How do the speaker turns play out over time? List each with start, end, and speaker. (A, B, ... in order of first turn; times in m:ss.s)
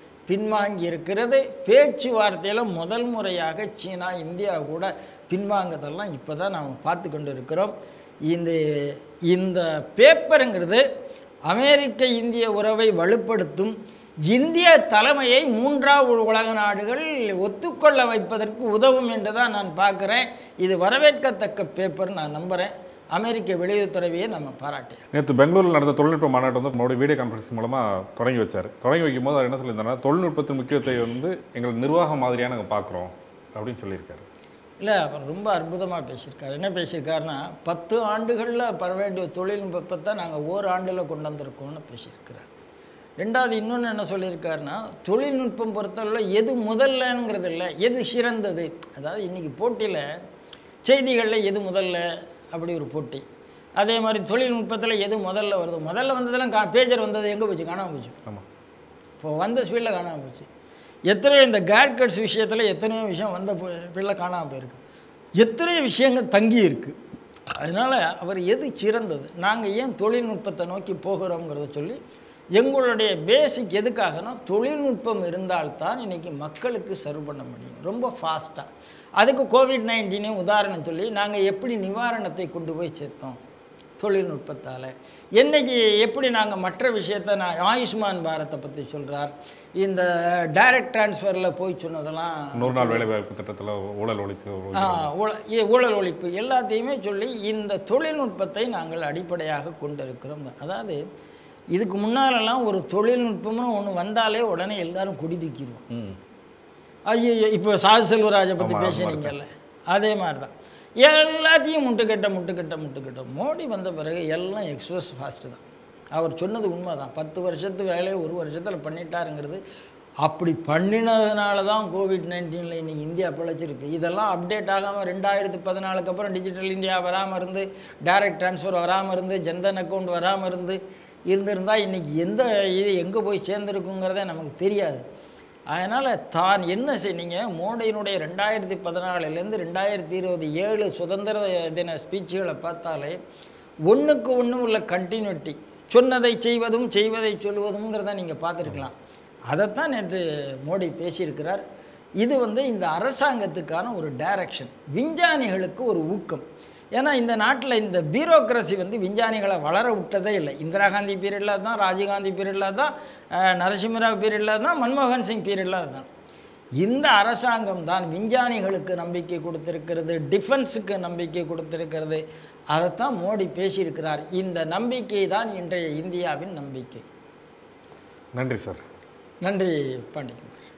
0:00.3-0:07.7 A
0:08.3-0:08.6 A
0:09.3-0:10.8 A
0:11.5-0:13.7 A
0:14.3-0:25.0 A
0:25.1-0:34.3 B
0:34.8-0:42.5 A
0:43.2-0:50.0 A
0:50.8-0:53.2 A
0:53.8-0:58.2 A
0:59.2-1:00.5 A
1:01.1-1:04.8 A
1:05.4-1:06.9 A
1:07.5-1:12.0 A
1:12.6-1:18.7 A
1:19.2-1:23.4 A
1:24.0-1:33.1 A
1:32.6-1:35.1 B
1:34.7-1:41.0 A
1:41.7-1:45.8 A
1:45.9-1:46.2 B
1:47.1-1:55.6 A
1:48.6-1:49.3 B
1:56.1-1:59.6 A
2:00.2-2:15.0 A
2:15.7-2:23.2 A
2:23.9-2:28.9 A
2:29.5-2:31.6 A
2:32.2-2:36.4 A
2:37.0-2:46.1 A
2:46.8-2:57.0 A
2:58.4-2:58.8 B
2:59.4-3:00.6 A